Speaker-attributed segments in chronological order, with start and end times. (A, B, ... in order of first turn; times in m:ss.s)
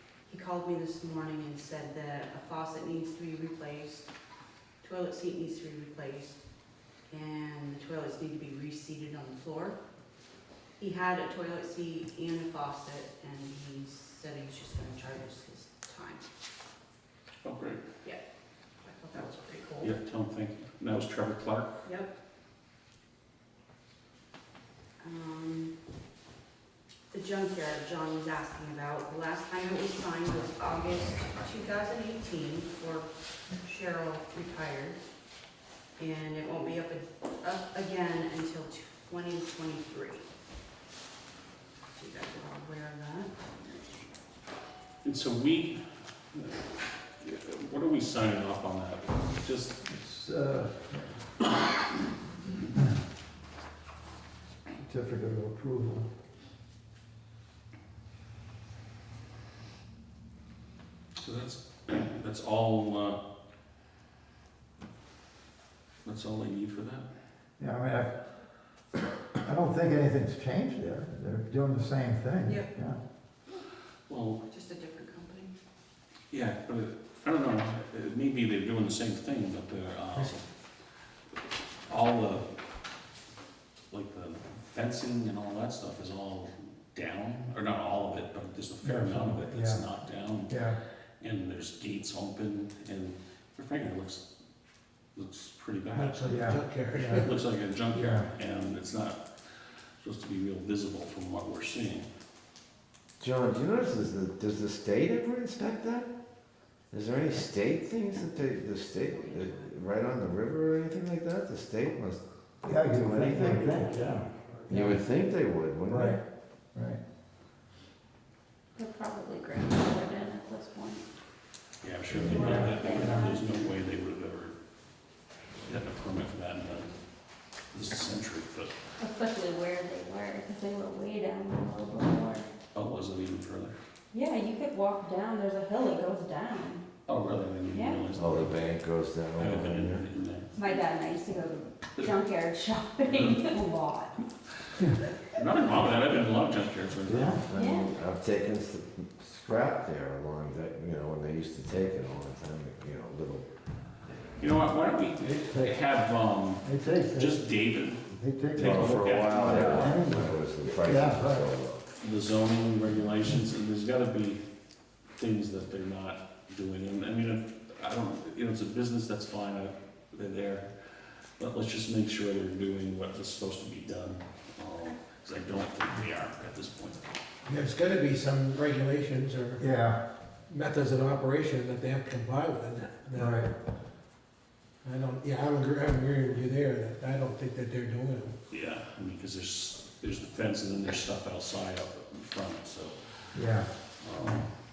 0:00.3-0:04.1 A
0:04.8-0:06.4 A
0:07.1-0:09.8 A
0:10.8-0:16.2 A
0:17.4-0:17.8 B
0:18.8-0:19.9 A
0:19.8-0:21.8 B
0:21.8-0:22.1 A
0:25.0-0:25.7 A
0:27.1-0:33.1 A
0:33.6-0:35.0 A
0:36.0-0:40.2 A
0:41.9-0:43.6 A
0:45.0-0:45.8 B
0:46.3-0:49.8 B
0:49.8-0:51.2 C
0:54.8-0:56.1 C
1:01.2-1:03.2 B
1:06.0-1:07.0 B
1:07.6-1:08.1 C
1:09.4-1:13.0 C
1:12.4-1:12.7 A
1:14.1-1:14.4 B
1:14.5-1:15.5 A
1:16.3-1:20.4 B
1:21.9-1:22.5 B
1:23.9-1:30.6 B
1:28.8-1:29.8 C
1:30.5-1:30.8 C
1:31.2-1:34.2 B
1:35.1-1:36.4 B
1:35.9-1:37.3 D
1:36.2-1:37.2 C
1:37.1-1:42.1 B
1:37.9-1:38.3 C
1:43.2-1:46.1 E
1:46.9-1:54.0 E
1:49.0-1:49.7 A
1:52.6-1:55.0 C
1:54.7-1:56.2 E
1:55.9-1:56.2 C
1:56.7-1:57.0 C
1:58.8-2:01.0 F
2:01.8-2:04.6 B
2:02.1-2:02.5 E
2:02.2-2:03.6 F
2:02.3-2:03.0 C
2:05.6-2:07.0 B
2:07.7-2:08.8 B
2:09.0-2:12.5 F
2:12.7-2:13.8 B
2:14.1-2:16.8 F
2:17.1-2:18.7 B
2:17.7-2:18.1 F
2:18.1-2:20.0 E
2:19.3-2:20.6 B
2:20.5-2:24.1 F
2:23.1-2:23.4 B
2:25.3-2:27.4 B
2:27.0-2:27.4 C
2:27.5-2:33.5 E
2:27.5-2:27.9 F
2:34.4-2:38.0 B
2:35.2-2:35.8 C
2:36.6-2:37.4 C
2:38.1-2:41.5 C
2:38.5-2:40.0 B
2:38.6-2:41.8 E
2:42.0-2:44.4 B
2:45.2-2:57.0 B
2:57.4-2:59.6 D
2:59.6-3:00.0 C
3:00.5-3:03.4 D
3:03.2-3:03.5 C
3:04.8-3:08.3 D
3:08.5-3:14.5 B
3:13.3-3:13.7 C